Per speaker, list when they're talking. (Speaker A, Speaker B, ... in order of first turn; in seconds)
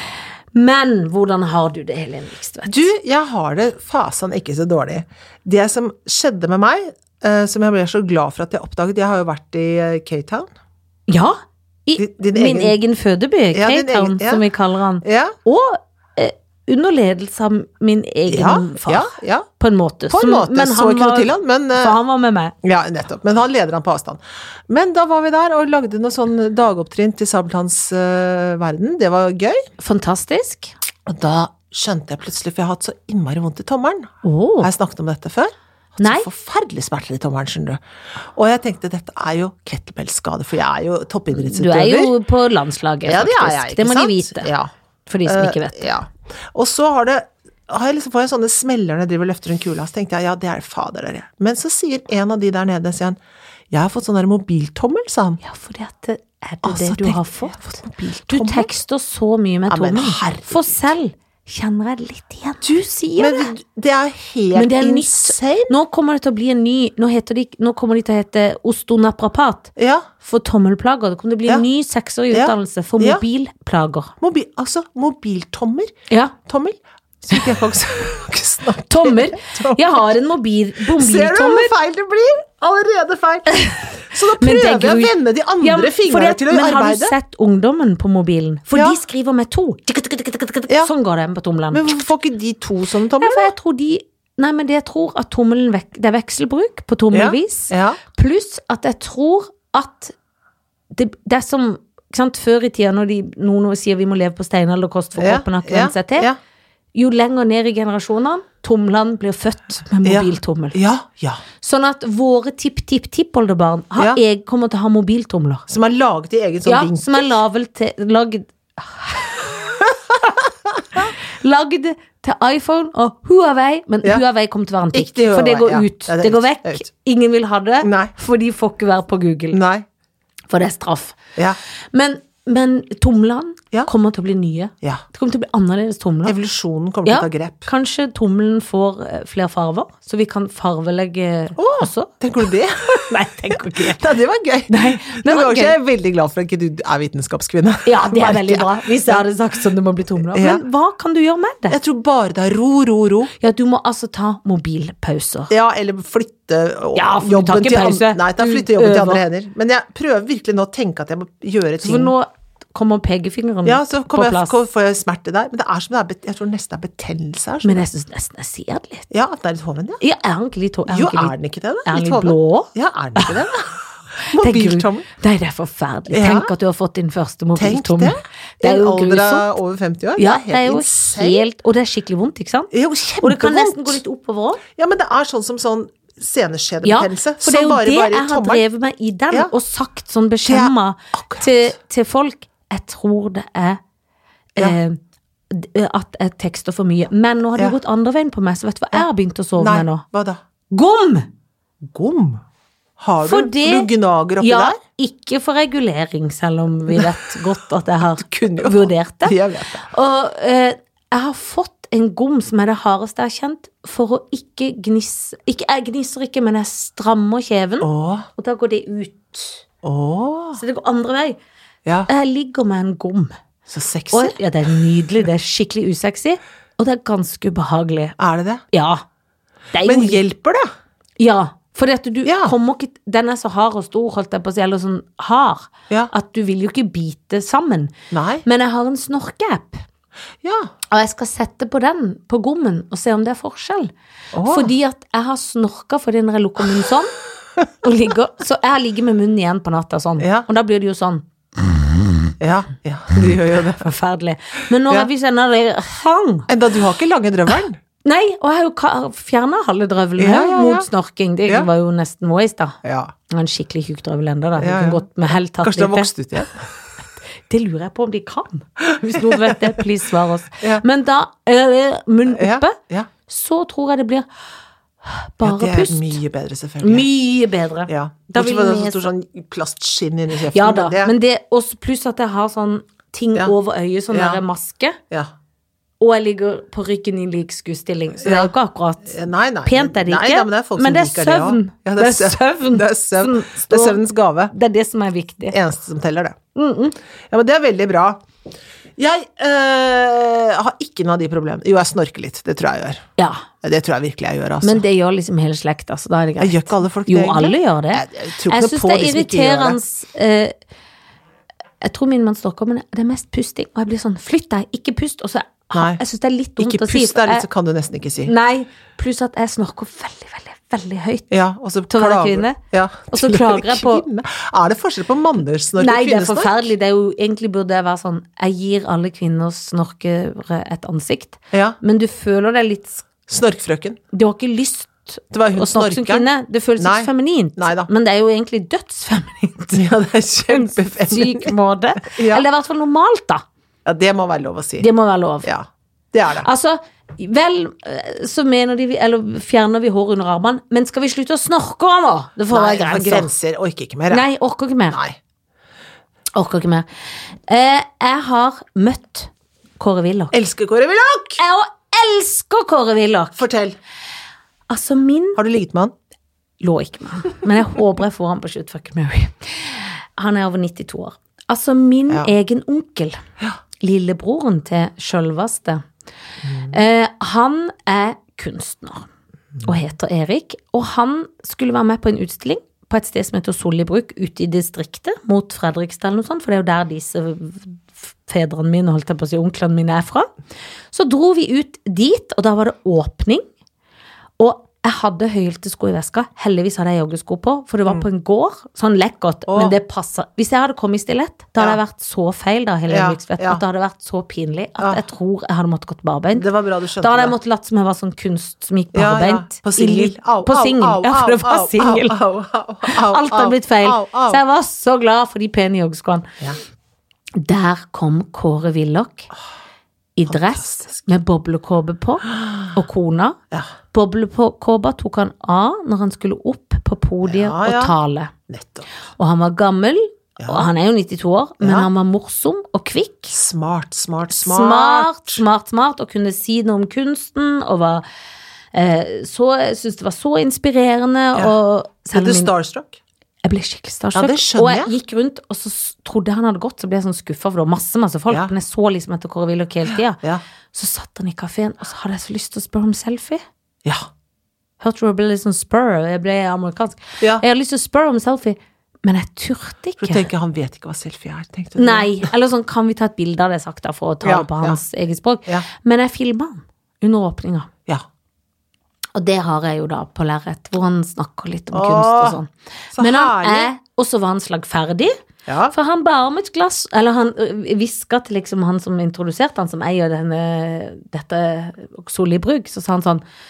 Speaker A: 0.5-2.9, 11.1-22.5, 29.8-30.7, 34.2-34.7, 36.0-36.3, 41.3-44.5, 45.1-45.9, 55.4-63.5, 64.5-74.1, 76.1-76.3, 78.9-81.8, 83.5-92.0, 93.2-100.1, 100.9-106.3, 107.0-110.8, 111.6-115.7, 116.7-119.5, 121.0-129.6, 130.5-131.2, 131.9-136.3, 137.1-142.1, 142.9-144.0, 144.7-145.8, 147.9-151.8, 153.4-155.5, 156.9-159.2, 161.8-164.6, 167.6-169.1, 170.0-173.4, 174.3-179.6, 180.2-184.6, 186.8-193.8, 194.6-195.0, 195.5-200.0, 200.7-201.3, 203.2-219.6, 220.6-221.4, 222.1-223.4, 224.1-228.2, 228.7-229.0, 229.7-230.2, 231.2-237.9, 238.4-239.8, 240.9-243.9, 244.5-247.1, 247.8-251.2, 253.8-256.5, 258.0-266.4, 267.4-272.8, 273.3-274.3, 275.1-276.2, 276.8-279.1, 280.5-285.0, 286.0-295.6, 296.6-297.0, 303.2-303.4, 304.6-310.6, 311.8-317.5, 318.2-321.3, 321.9-322.6, 323.1-324.0, 325.8-333.1, 334.1-339.9, 340.5-343.4, 344.8-345.5, 346.4-353.3, 354.1-355.0, 356.4-356.9, 357.5-360.4, 361.4-363.5, 364.7-365.4, 366.6-373.2, 373.8-375.9, 376.6-379.1, 379.6-390.3, 390.9-393.4, 394.4-406.5, 407.0-412.2, 412.8-416.3, 417.4-419.3, 420.2-423.4, 423.9-428.3, 429.2-433.4, 434.3-438.0, 438.7-442.5, 443.4-450.2, 450.7-453.4, 454.8-460.3, 461.8-467.7, 469.1-475.1, 475.7-483.2
Speaker B: 2.7-10.5, 12.0-12.8, 13.5-14.4, 15.0-15.3, 18.3-19.5, 20.1-22.0, 22.6-29.7, 31.1-37.8, 38.4-42.1, 43.1-44.7, 45.2-53.2, 53.7-55.4, 56.6-58.7, 59.7-60.8, 62.6-65.7, 69.8-70.1, 72.3-73.2, 74.2-75.9, 76.5-80.1, 80.9-87.2, 91.7-93.5, 97.1-98.0, 105.2-106.4, 110.0-111.4, 115.7-117.3, 119.8-121.0, 124.9-126.9, 127.8-128.1, 129.5-129.8, 136.3-137.7, 141.6-149.2, 150.2-150.6, 151.7-153.3, 155.5-162.1, 163.7-167.9, 169.1-170.0, 170.9-175.1, 176.1-176.5, 177.6-181.4, 182.7-184.0, 184.8-188.6, 190.4-191.8, 199.6-200.4, 201.8-202.4, 203.0-204.8, 208.1-209.9, 217.8-218.3, 219.8-220.6, 223.7-224.4, 228.2-228.6, 229.8-230.7, 232.2-232.6, 238.1-238.4, 240.4-240.7, 244.3-244.7, 250.2-250.5, 252.4-253.8, 256.5-257.8, 260.2-260.9, 262.8-263.1, 264.6-265.1, 265.6-266.7, 268.9-269.8, 270.6-270.9, 272.3-273.1, 275.4-277.1, 277.9-281.1, 284.1-284.4, 288.2-288.5, 289.1-294.5, 295.5-296.4, 297.3-298.2, 299.0-303.0, 303.6-304.8, 306.4-309.8, 315.7-316.0, 316.6-318.3, 321.3-326.7, 331.5-331.8, 333.3-334.0, 335.3-336.3, 336.8-337.9, 339.7-342.4, 343.9-344.9, 345.4-346.5, 352.5-354.3, 354.9-355.2, 360.3-361.4, 363.4-363.8, 365.4-365.9, 376.5-376.7, 399.5-399.8, 402.9-403.6, 406.4-407.4, 408.9-414.4, 420.3-421.1, 422.3-422.7, 427.2-427.9, 428.5-428.9, 430.4-430.7, 431.6-431.9, 433.3-435.4, 442.1-443.0, 444.1-444.9, 460.0-462.3, 464.2-464.8, 471.7-472.4, 472.9-473.7, 475.5-475.7